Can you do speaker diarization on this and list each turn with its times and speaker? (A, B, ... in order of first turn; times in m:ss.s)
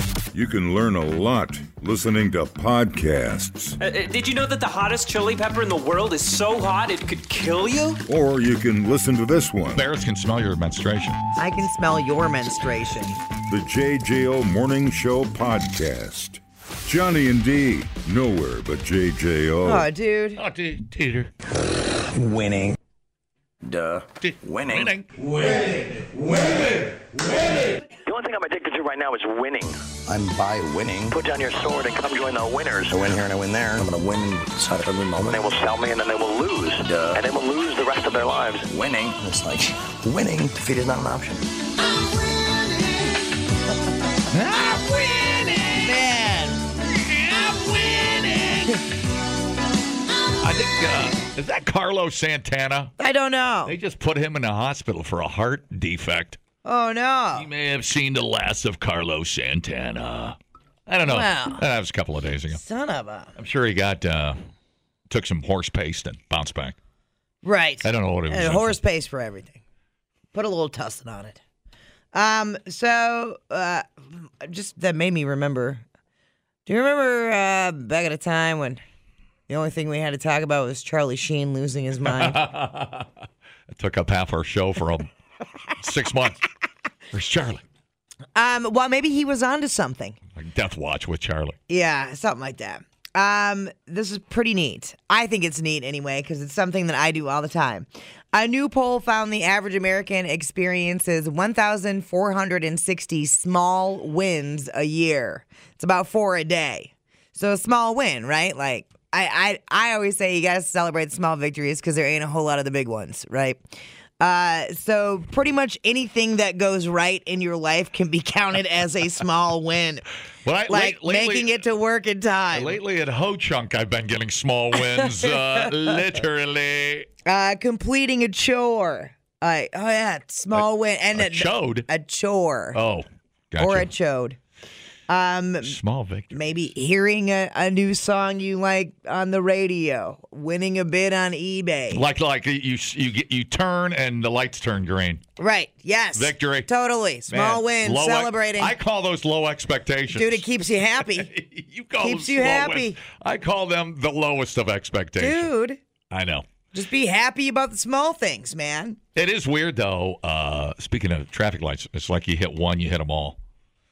0:00.3-0:03.8 A
0:03.8-0:08.0 B
0:08.1-0:09.9 A
0:09.7-0:11.2 C
0:11.4-0:13.2 D
0:13.5-0:19.9 A
0:19.6-0:20.4 D
0:20.4-0:21.3 C
0:22.1-0:22.8 E
0:23.6-0:24.9 E
0:24.2-0:25.1 C
0:28.0-0:29.8 F
0:30.1-0:31.1 E
0:31.1-0:33.0 F
0:32.9-0:35.4 E
0:35.2-0:38.6 F
0:36.8-0:37.2 E
0:38.7-0:41.5 E
0:44.3-0:46.0 C
0:45.8-0:46.6 D
0:46.9-0:48.8 C
0:50.4-0:52.9 C
0:53.0-0:53.7 D
0:53.6-0:56.4 C
0:56.6-0:57.5 D
0:57.3-1:02.6 C
1:01.1-1:01.6 D
1:02.5-1:03.3 D
1:03.4-1:04.4 C
1:05.1-1:06.8 C
1:07.4-1:09.6 D
1:07.8-1:08.8 C
1:10.3-1:11.4 D
1:12.1-1:15.8 D
1:16.6-1:18.8 D
1:19.5-1:22.4 D
1:22.1-1:23.1 C
1:23.7-1:25.1 C
1:25.8-1:26.4 C
1:27.1-1:27.6 C
1:28.3-1:30.2 D
1:30.4-1:31.6 C
1:31.7-1:53.6 D
1:54.2-2:00.0 D
2:00.4-2:01.6 C
2:00.7-2:02.8 D
2:02.5-2:07.1 C
2:07.2-2:12.8 D
2:10.5-2:11.9 C
2:12.7-2:13.9 C
2:13.6-2:14.4 D
2:15.1-2:15.8 D
2:15.6-2:16.7 C
2:16.3-2:22.0 D
2:21.9-2:25.2 C
2:25.4-2:28.7 D
2:26.1-2:26.7 C
2:27.3-2:30.4 C
2:30.1-2:31.3 D
2:31.0-2:35.5 C
2:32.0-2:33.0 D
2:35.2-2:35.8 D
2:36.1-2:36.5 C
2:36.7-2:39.0 D
2:39.1-2:43.4 C